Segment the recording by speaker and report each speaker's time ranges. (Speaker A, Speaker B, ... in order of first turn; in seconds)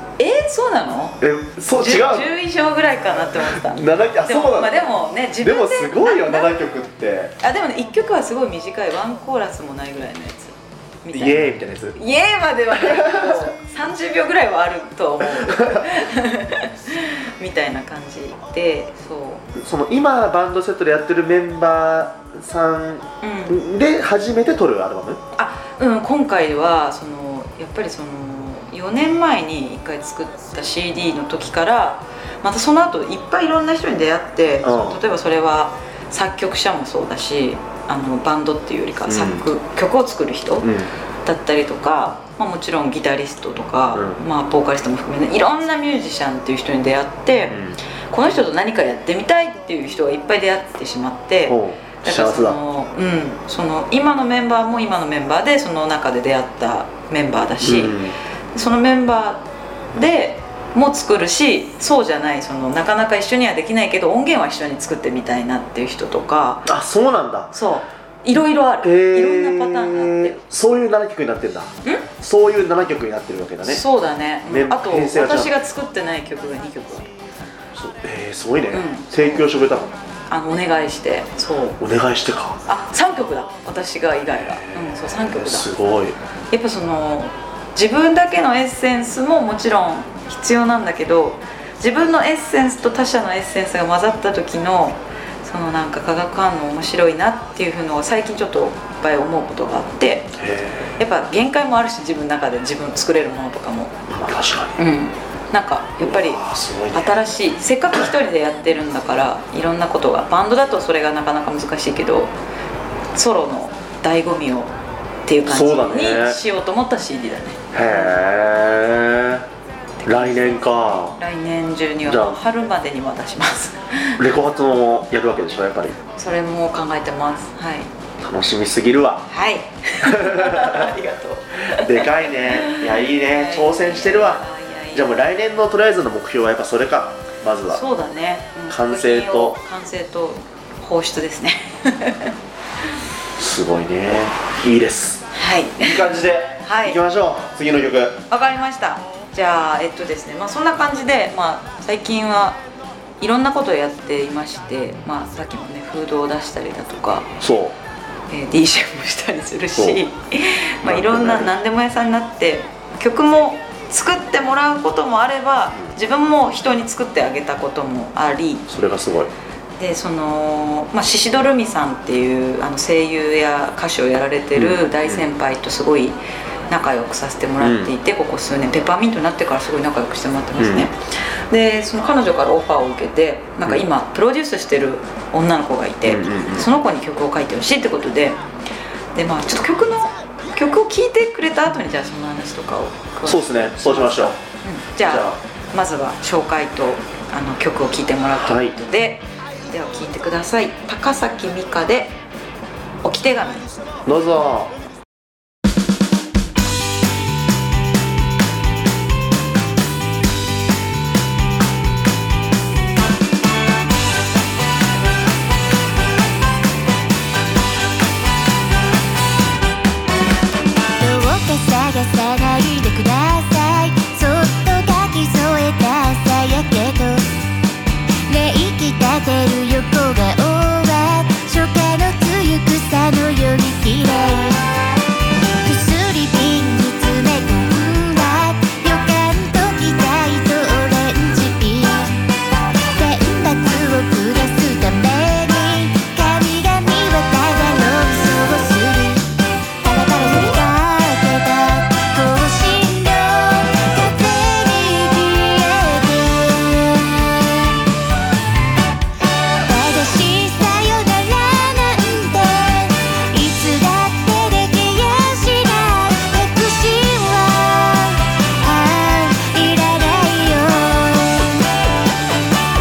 Speaker A: 0.2-1.2, 1.8-6.5, 7.4-19.5, 23.2-23.6, 25.4-40.7, 41.2-47.6, 48.1-58.0, 58.5-66.7, 67.5-70.4, 73.6-77.1, 78.7-79.5, 80.3-81.8, 82.7-85.7, 86.5-100.4, 101.0-104.1, 104.8-112.3, 113.2-114.7, 115.3-118.2, 120.0-124.2, 126.2-127.9, 129.3-135.1, 137.7-142.3, 145.3-147.0, 148.3-152.6, 153.2-157.3, 158.3-168.7, 169.8-188.4, 189.2-202.2, 203.0-203.7
Speaker B: 1.2-2.3, 3.2-4.9, 5.4-7.3, 11.1-12.0, 12.8-13.5, 15.4-15.9, 19.6-25.2, 34.6-35.0, 39.1-39.5, 40.6-40.9, 43.9-44.2, 47.5-47.8, 51.5-52.6, 57.6-58.1, 66.7-67.5, 68.8-73.8, 74.5-75.5, 77.8-79.9, 81.8-82.6, 84.6-86.2, 100.4-100.9, 104.1-104.8, 106.0-107.2, 115.5-116.4, 117.7-119.5, 120.0-121.2, 122.1-122.4, 124.2-126.0, 128.2-129.3, 130.0-130.9, 131.7-137.8, 138.7-139.6, 143.4-145.2, 145.8-148.2, 157.4-157.8, 160.8-161.5, 168.7-169.3, 174.6-175.3, 177.6-177.9, 180.6-180.9, 186.1-186.7, 193.2-194.4, 195.1-195.4, 198.3-198.8, 204.1-204.7
Speaker C: 221.0-227.4, 228.3-234.7, 235.6-242.2, 243.0-249.3, 249.8-257.8, 259.6-271.6